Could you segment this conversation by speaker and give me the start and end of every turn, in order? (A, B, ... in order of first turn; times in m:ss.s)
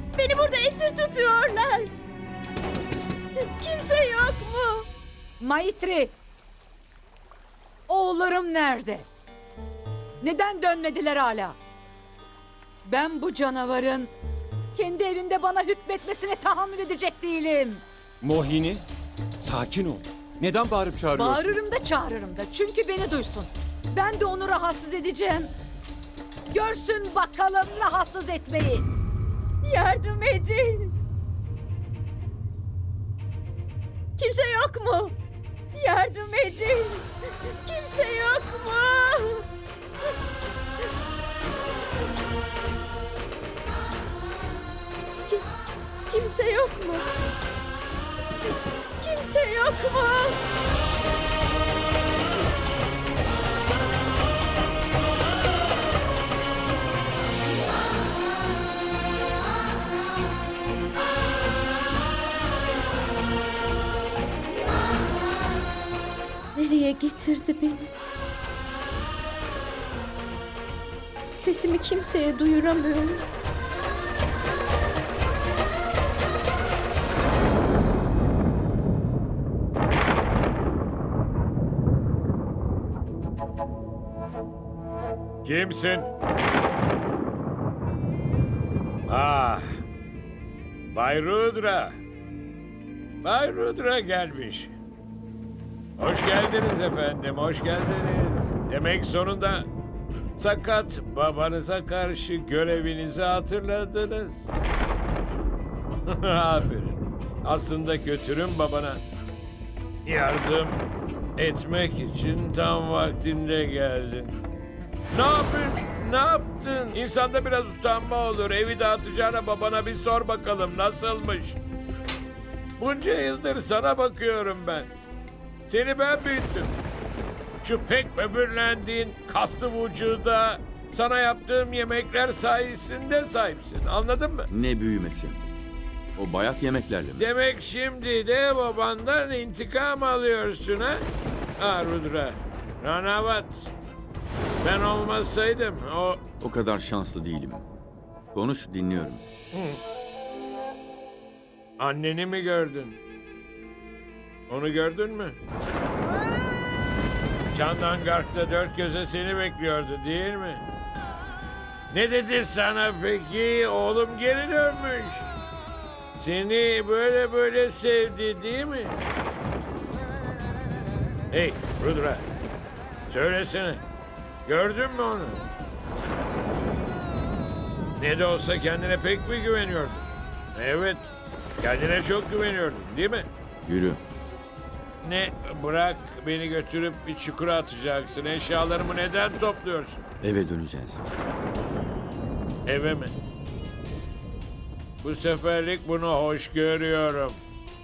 0:00.2-0:01.9 A
0:03.4-0:04.9 A
0:05.4-0:06.2 B
0:07.9-0:09.1 B
0:10.2-0:11.6 B
0:12.9-0:14.1 B
0:14.8-0:17.8 B
0:18.2-0:18.9 C
0:19.4-0:21.6 C
0:21.1-0:25.5 B
0:26.5-0:28.9 B
0:29.7-0:30.9 A
0:34.2-0:35.2 A
0:35.8-0:37.1 A
0:37.7-0:39.4 A
0:46.1-0:47.1 A
0:49.0-0:50.4 A
1:06.6-1:07.9 A
1:11.4-1:13.3 A
1:25.4-1:26.1 D
1:29.1-1:29.8 D
1:30.9-1:32.0 D
1:33.2-1:34.7 D
1:36.0-1:39.7 D
1:40.4-1:44.5 D
1:46.1-1:49.0 D
1:50.1-1:50.8 D
1:51.4-1:54.4 D
1:55.1-2:01.6 D
2:02.8-2:04.9 D
2:05.7-2:06.7 D
2:07.6-2:14.5 D
2:14.5-2:15.4 E
2:16.2-2:17.3 E
2:17.2-2:21.1 D
2:21.6-2:23.7 D
2:24.6-2:26.2 D
2:26.4-2:27.7 E
2:28.3-2:29.2 E
2:29.5-2:29.8 D
2:31.8-2:33.0 D
2:34.5-2:35.4 D
2:37.5-2:40.6 D
2:41.9-2:45.3 D
2:46.2-2:49.0 D
2:51.3-2:52.3 D
2:53.1-2:53.8 D
2:54.5-2:55.4 D
2:58.0-3:01.1 D
3:01.6-3:03.3 D
3:03.7-3:04.0 E
3:05.0-3:10.0 D
3:10.2-3:11.0 E
3:12.7-3:13.1 D
3:15.0-3:17.4 D